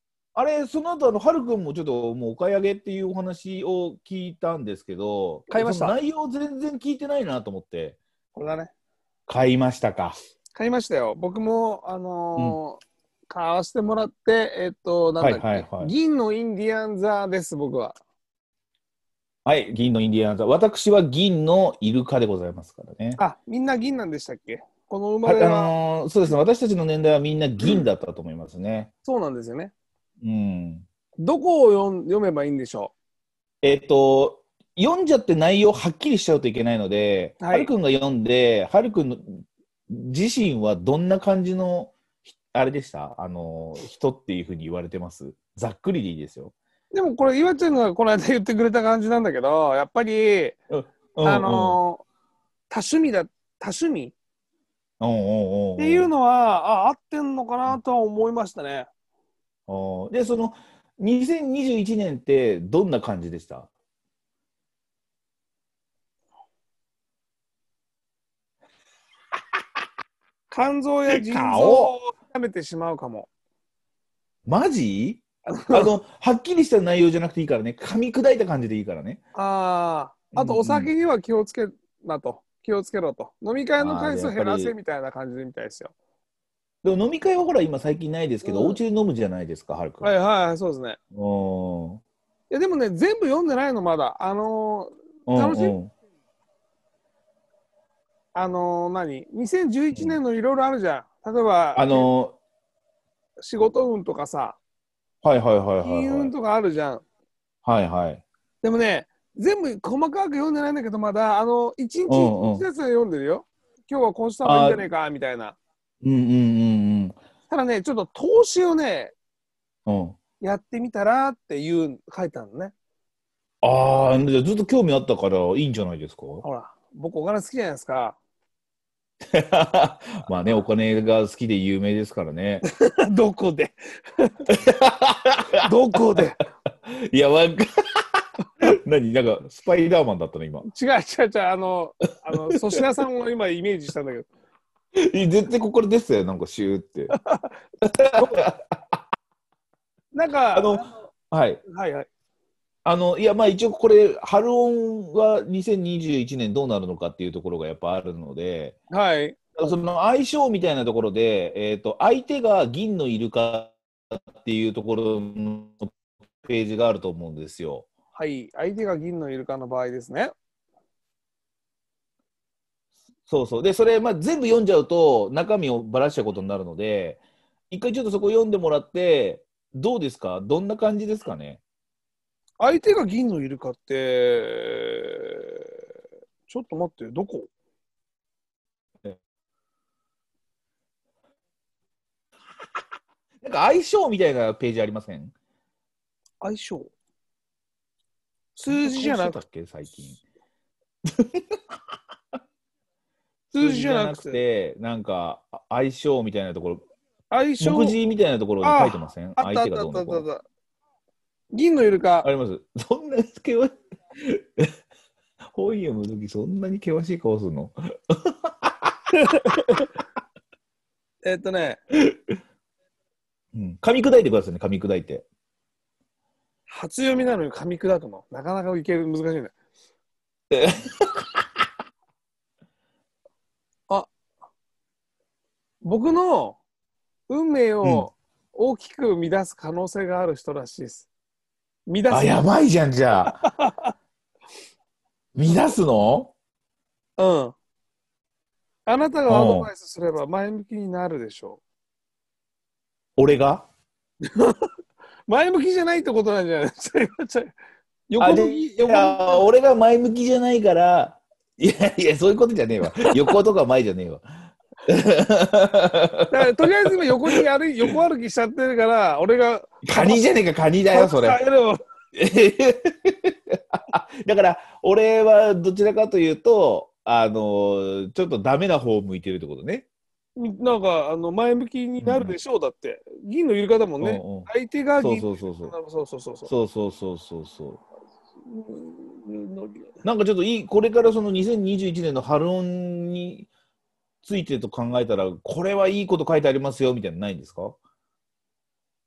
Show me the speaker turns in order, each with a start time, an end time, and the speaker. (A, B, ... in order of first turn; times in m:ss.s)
0:00.4-0:08.0 A
0:05.5-0:06.0 B
0:08.3-0:08.7 B
0:09.3-0:10.2 A
0:10.6-0:18.0 B
0:15.2-0:15.9 A
0:19.4-0:23.2 A
0:23.2-0:25.7 B
0:25.2-0:28.9 A
0:29.0-0:29.7 B
0:30.2-0:30.9 A
0:31.2-0:32.9 B
0:33.6-0:46.5 A
0:37.4-0:37.7 B
0:46.9-0:50.6 B
0:50.7-0:51.8 A
0:51.2-0:52.0 B
0:52.7-0:54.2 B
0:55.0-0:56.1 A
0:55.8-0:58.9 B
0:59.7-1:03.7 A
1:10.5-1:13.3 B
1:11.1-1:12.0 A
1:14.5-1:19.2 A
1:15.5-1:15.9 B
1:19.4-1:25.9 B
1:20.3-1:20.9 A
1:23.8-1:24.7 A
1:26.8-1:30.1 A
1:28.4-1:28.8 B
1:30.0-1:31.0 B
1:31.1-1:32.0 A
1:32.5-1:35.8 B
1:35.3-1:35.9 A
1:38.3-1:42.1 B
1:39.9-1:40.2 A
1:41.8-1:42.4 A
1:43.4-1:44.6 B
1:45.2-1:46.3 A
1:45.8-1:47.0 B
1:47.6-1:48.2 A
1:48.6-1:55.6 B
1:52.1-1:52.6 A
1:54.4-1:54.8 A
1:56.0-1:57.2 A
1:57.5-1:59.1 B
1:59.9-2:00.2 A
2:00.4-2:02.7 B
2:03.6-2:06.4 A
2:06.4-2:08.2 B
2:09.3-2:12.6 A
2:12.8-2:14.5 B
2:14.5-2:16.3 A
2:15.6-2:16.4 B
2:16.9-2:20.7 A
2:20.6-2:24.3 B
2:25.0-2:27.1 A
2:27.2-2:27.5 B
2:27.8-2:28.6 A
2:28.2-2:28.4 B
2:30.1-2:31.1 B
2:30.5-2:31.6 A
2:31.7-2:32.1 B
2:32.8-2:38.8 A
2:38.9-2:39.4 B
2:39.6-2:45.9 A
2:46.4-2:47.9 A
2:48.2-2:50.3 B
2:53.3-3:01.6 A
3:02.6-3:05.7 B
3:06.5-3:07.5 B
3:13.4-3:15.3 A
3:16.4-3:16.9 B
3:18.6-3:19.4 B
3:18.7-3:20.2 A
3:21.1-3:21.6 A
3:23.5-3:26.8 A
3:23.5-3:24.4 B
3:27.3-3:28.0 B
3:27.6-3:30.3 A
3:28.6-3:30.4 B
3:31.5-3:32.3 B
3:32.2-3:34.7 A
3:35.5-3:38.9 A
3:39.2-3:39.9 B
3:41.2-3:41.8 B
3:42.0-3:42.3 A
3:43.5-3:45.3 A
3:46.7-3:49.5 B
3:50.5-3:51.4 A
3:55.8-3:56.6 B
3:57.3-4:01.1 B
4:01.9-4:02.4 B
4:02.1-4:03.4 A
4:03.3-4:03.9 B
4:05.4-4:06.3 A
4:07.2-4:07.5 B
4:08.9-4:11.6 B
4:09.3-4:09.7 A
4:13.2-4:13.7 A
4:14.3-4:14.7 B
4:15.3-4:17.5 B
4:18.1-4:19.5 B
4:18.2-4:24.2 A
4:24.9-4:26.3 A
4:26.3-4:30.2 B
4:29.8-4:31.4 A
4:30.9-4:31.8 B
4:32.2-4:39.9 A
4:40.4-4:46.5 B
4:42.0-4:42.4 A
4:44.0-4:45.8 A
4:46.5-4:47.8 A
4:48.4-4:49.9 B
4:50.0-4:53.5 A
4:54.2-4:57.8 A